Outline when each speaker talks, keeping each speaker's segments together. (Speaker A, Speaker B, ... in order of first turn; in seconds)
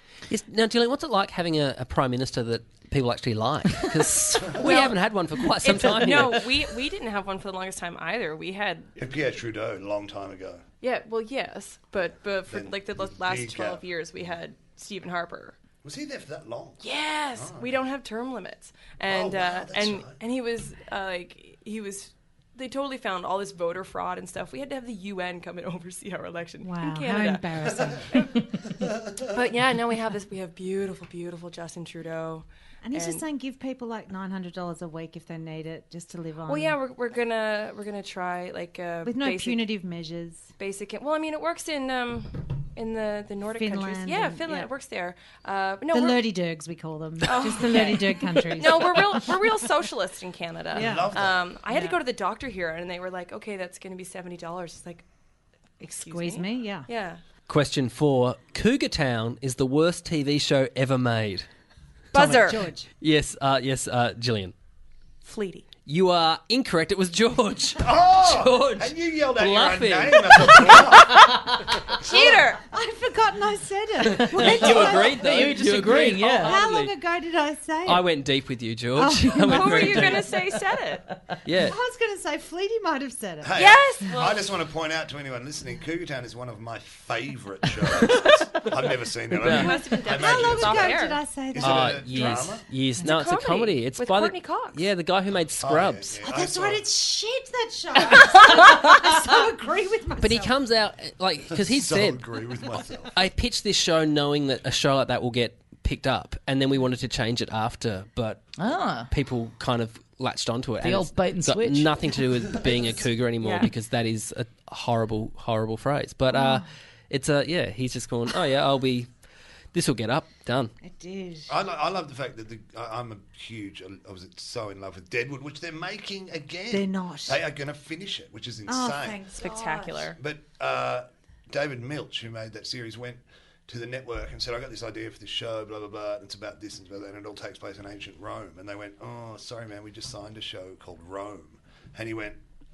Speaker A: 0.3-6.4, 57.5-61.5, 63.0-64.5, 65.9-70.8, 74.0-77.0, 77.8-80.3, 81.5-81.8, 89.3-89.8, 91.6-96.2, 100.2-102.2, 103.1-108.5, 109.1-119.1, 119.7-120.7
Speaker B: 4.6-4.9, 5.6-8.9, 10.8-15.6, 16.8-28.3, 29.3-33.2, 36.5-39.7, 40.6-46.2, 47.2-55.0, 55.8-57.2, 62.1-62.7, 65.2-65.7, 72.0-72.6, 79.5-81.1, 83.6-84.5, 89.4-91.2, 93.0-94.9, 113.4-113.7, 129.4-130.2
Speaker C: 9.0-10.6, 12.5-13.8, 15.8-16.8, 17.4-17.7, 19.1-20.1, 28.8-29.2, 50.7-51.5, 67.8-71.4, 83.4-92.7, 95.6-96.9, 101.6-103.1, 121.5-129.2, 130.2-142.4
Speaker D: 26.6-28.2, 32.9-36.8, 39.0-40.5, 43.6-44.7, 45.9-49.3, 50.7-52.0, 55.8-56.9, 62.1-62.9, 72.0-78.1, 79.0-80.2, 81.6-83.5, 89.9-92.5, 96.2-100.5, 116.3-116.7, 120.8-121.5, 126.7-127.4, 128.7-130.1
Speaker E: 74.4-76.6, 108.6-109.1, 110.8-112.0